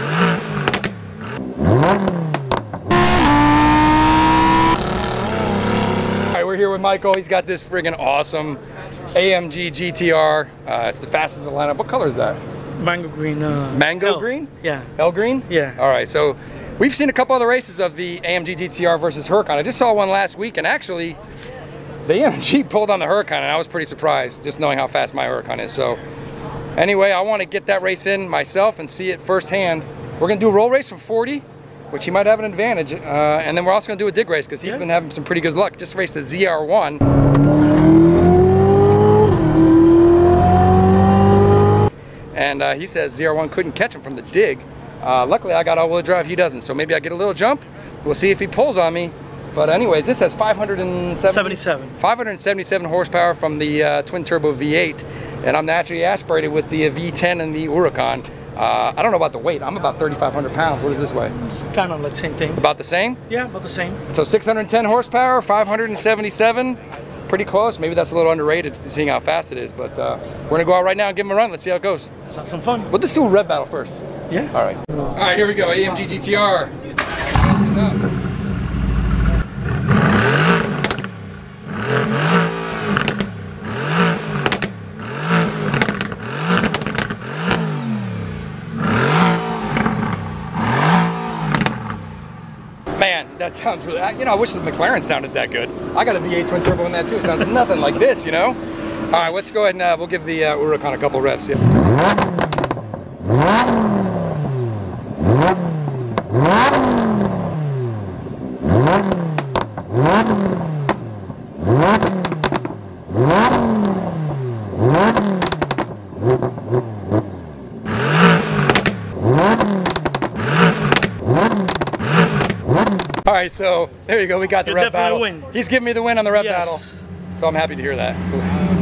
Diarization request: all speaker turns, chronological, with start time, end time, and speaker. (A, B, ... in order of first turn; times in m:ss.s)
0:06.3-0:08.6 A
0:09.1-0:12.4 A
0:12.8-0:14.9 B
0:13.7-0:21.2 A
0:15.5-0:15.8 B
0:22.0-0:26.0 A
0:26.8-0:37.0 A
0:42.3-1:01.3 A
0:51.2-0:51.9 B
1:01.4-1:02.6 B
1:02.6-1:03.2 A
1:03.3-1:04.0 B
1:04.1-1:12.1 A
1:12.3-1:12.9 B
1:12.9-1:14.0 A
1:14.5-1:16.7 A
1:17.2-1:18.0 A
1:33.0-1:38.6 A
1:39.1-1:41.6 A
2:03.3-2:06.8 A
2:04.6-2:05.5 B
2:06.3-2:07.0 B
2:07.4-2:08.6 A